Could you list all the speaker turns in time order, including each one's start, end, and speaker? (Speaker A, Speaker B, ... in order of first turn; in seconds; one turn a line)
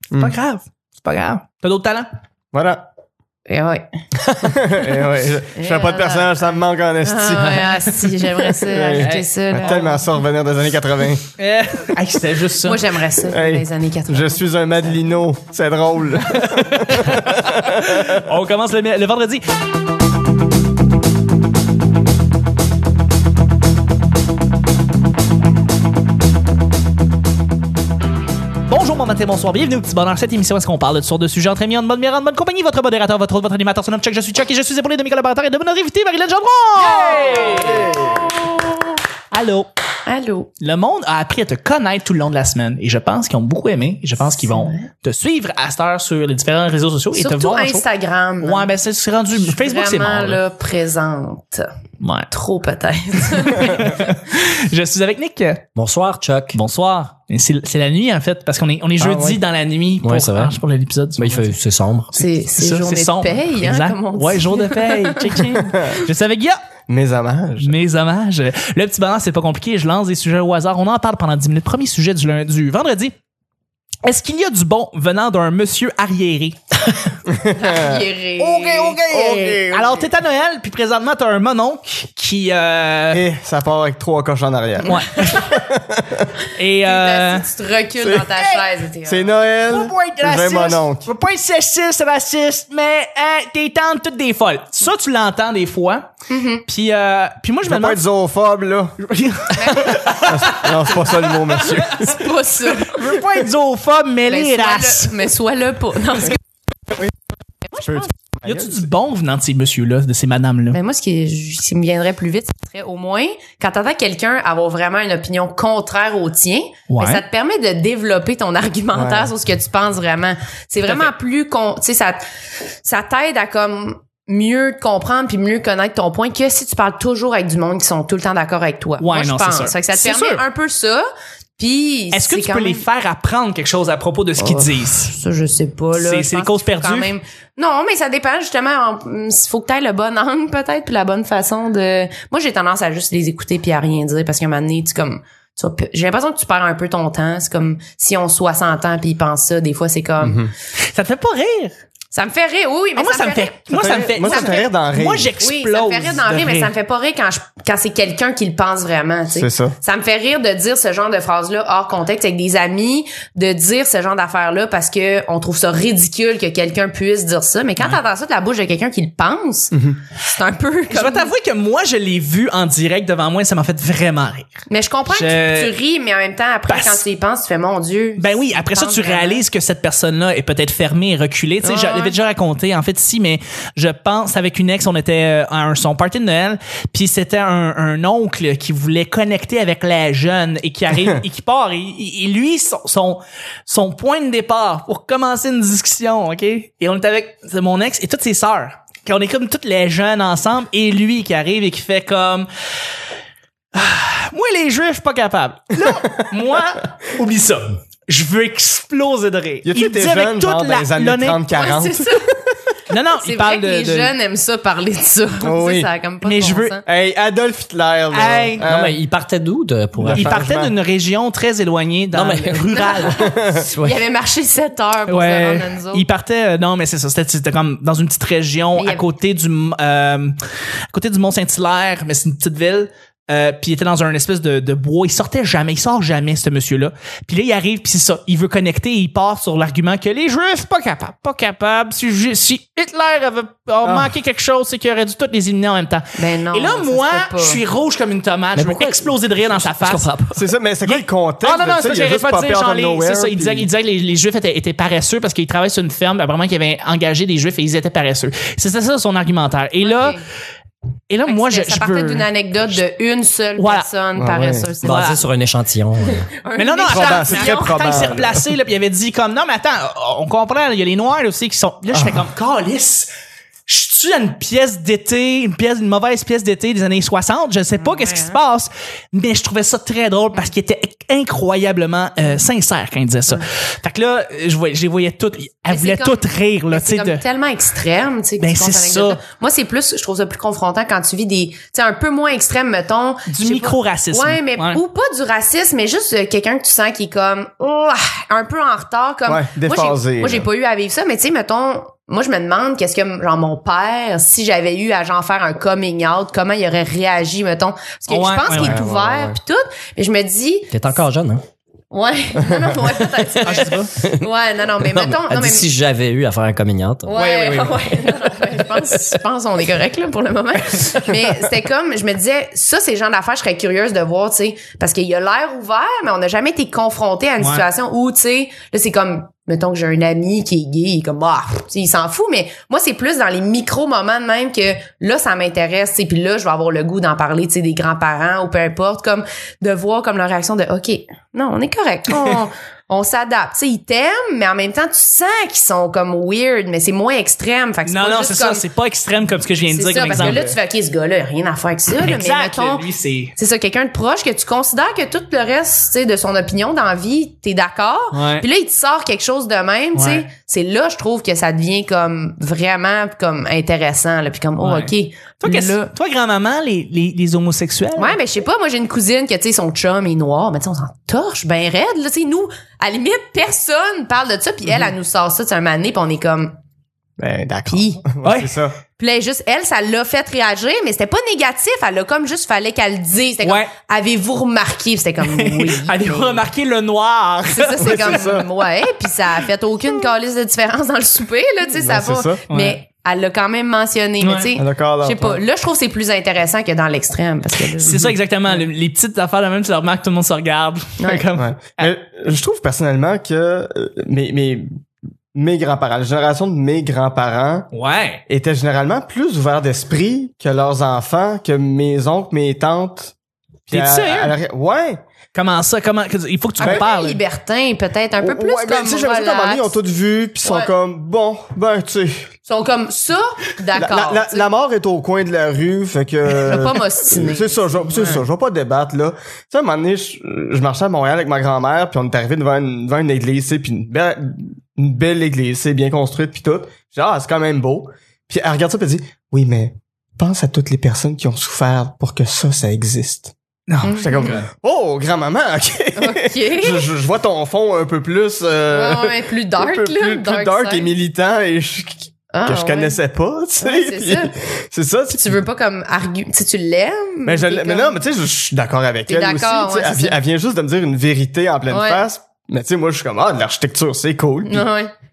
Speaker A: 0.1-0.3
Speaker B: 0.2-2.1
Speaker A: 2.5-2.8
Speaker C: 3.5-3.9
Speaker A: 4.4-7.7
Speaker C: 5.5-6.5
Speaker C: 7.0-10.1
Speaker A: 8.6-11.3
Speaker B: 9.0-9.8
Speaker B: 11.4-12.9
Speaker C: 12.6-14.4
Speaker A: 13.3-18.2
Speaker B: 16.3-19.4
Speaker B: 28.7-37.9
Speaker A: 36.9-38.2
Speaker C: 37.1-37.7
Speaker B: 39.3-39.7
Speaker C: 40.0-40.5
Speaker B: 40.6-47.8
Speaker C: 44.4-44.9
Speaker C: 47.1-48.7
Speaker B: 48.4-50.4
Speaker C: 49.4-51.7
Speaker B: 52.0-52.3
Speaker C: 52.3-54.0
Speaker B: 53.6-55.6
Speaker D: 55.8-56.6
Speaker B: 56.5-61.5
Speaker D: 59.0-59.4
Speaker D: 60.0-60.6
Speaker D: 61.2-62.1
Speaker C: 62.1-65.8
Speaker B: 62.2-66.6
Speaker A: 65.7-66.0
Speaker A: 66.9-67.7
Speaker B: 67.6-73.1
Speaker B: 74.0-76.6
Speaker A: 77.3-78.0
Speaker C: 77.5-79.0
Speaker B: 78.4-83.2
Speaker A: 79.0-80.0
Speaker A: 83.1-86.3
Speaker B: 84.8-85.3
Speaker C: 84.8-85.6
Speaker B: 86.5-87.5
Speaker C: 86.8-89.3
Speaker A: 88.0-88.3
Speaker B: 88.4-88.6
Speaker A: 89.0-91.1
Speaker B: 89.7-96.1
Speaker C: 96.3-96.6
Speaker B: 96.7-98.0
Speaker A: 97.7-99.0
Speaker B: 99.0-101.8
Speaker C: 99.6-100.2
Speaker A: 100.0-102.1
Speaker C: 101.9-103.0
Speaker B: 102.8-105.3
Speaker C: 104.3-106.4
Speaker A: 107.7-108.8
Speaker B: 108.4-110.8
Speaker C: 110.7-122.2
Speaker B: 116.9-117.2
Speaker A: 118.9-119.3
Speaker B: 120.8-121.1
Speaker C: 122.8-131.0
Speaker B: 129.0-130.4
Speaker C: 131.6-132.8
Speaker B: 132.1-135.1
Speaker C: 134.4-150.4
Speaker B: 135.9-137.1
Speaker A: 150.2-150.5
Speaker B: 150.9-151.7
Speaker C: 152.1-153.6
Speaker B: 152.9-156.7
Speaker A: 153.7-155.3
Speaker C: 154.2-154.6
Speaker C: 155.4-171.3
Speaker A: 159.3-159.7
Speaker A: 169.7-170.0
Speaker B: 170.9-175.7
Speaker C: 174.7-179.4
Speaker B: 176.7-177.0
Speaker B: 178.2-202.5
Speaker C: 181.6-182.1
Speaker B: 203.7-211.4
Speaker A: 205.8-206.3
Speaker A: 209.6-212.3
Speaker C: 211.5-212.3
Speaker B: 212.9-214.1
Speaker C: 213.1-216.8
Speaker A: 215.4-215.9
Speaker B: 216.2-216.8
Speaker A: 216.8-219.0
Speaker B: 218.1-218.6
Speaker D: 218.6-220.3
Speaker A: 220.0-220.7
Speaker B: 220.1-223.3
Speaker D: 222.1-222.8
Speaker C: 222.7-226.0
Speaker A: 223.2-223.6
Speaker D: 223.6-224.0
Speaker B: 225.1-230.4
Speaker C: 228.8-229.0
Speaker B: 230.9-250.1
Speaker A: 243.8-244.1
Speaker C: 246.2-247.6
Speaker D: 248.6-250.4
Speaker A: 250.3-253.7
Speaker B: 250.8-260.2
Speaker C: 259.8-260.2
Speaker B: 261.1-262.8
Speaker C: 261.3-265.2
Speaker B: 263.6-263.9
Speaker A: 264.1-264.7
Speaker D: 264.8-266.3
Speaker B: 264.8-265.2
Speaker C: 266.1-268.1
Speaker B: 266.6-273.1
Speaker A: 266.9-268.5
Speaker A: 271.9-272.2
Speaker B: 273.7-287.2
Speaker C: 277.7-278.4
Speaker C: 285.7-310.7
Speaker B: 288.4-289.2
Speaker B: 293.3-294.8
Speaker A: 299.3-300.5
Speaker B: 308.1-308.8
Speaker A: 308.5-309.4
Speaker D: 310.7-311.4
Speaker C: 311.9-315.6
Speaker D: 313.0-314.3
Speaker B: 313.4-313.9
Speaker D: 314.8-317.2
Speaker C: 317.1-348.6
Speaker B: 317.1-318.1
Speaker B: 327.4-327.6
Speaker B: 347.9-350.4
Speaker C: 349.7-365.9
Speaker A: 350.1-350.6
Speaker B: 351.9-353.3
Speaker B: 358.1-358.5
Speaker B: 359.9-360.2
Speaker B: 364.6-368.1
Speaker C: 368.0-376.5
Speaker B: 374.6-374.9
Speaker A: 377.2-378.8
Speaker C: 377.7-378.0
Speaker B: 378.2-378.6
Speaker C: 379.0-386.4
Speaker B: 383.4-383.7
Speaker B: 385.2-388.3
Speaker C: 387.5-398.6
Speaker A: 387.8-388.5
Speaker A: 391.7-392.4
Speaker B: 392.5-392.8
Speaker B: 394.2-394.5
Speaker A: 394.6-395.4
Speaker B: 397.8-401.9
Speaker C: 401.0-401.2
Speaker A: 401.3-404.8
Speaker A: 405.3-407.7
Speaker B: 407.7-408.2
Speaker A: 408.3-413.1
Speaker A: 413.7-415.0
Speaker B: 413.7-414.3
Speaker B: 415.3-417.2
Speaker C: 416.6-419.8
Speaker A: 418.2-422.3
Speaker C: 420.4-420.7
Speaker C: 422.4-424.5
Speaker A: 423.8-455.4
Speaker C: 426.3-428.2
Speaker B: 443.7-444.5
Speaker C: 443.8-444.4
Speaker C: 446.0-446.9
Speaker C: 448.7-450.9
Speaker C: 452.3-453.0
Speaker C: 453.6-454.3
Speaker C: 455.1-457.9
Speaker A: 457.2-464.7
Speaker C: 459.1-460.2
Speaker C: 461.7-462.0
Speaker C: 464.4-464.9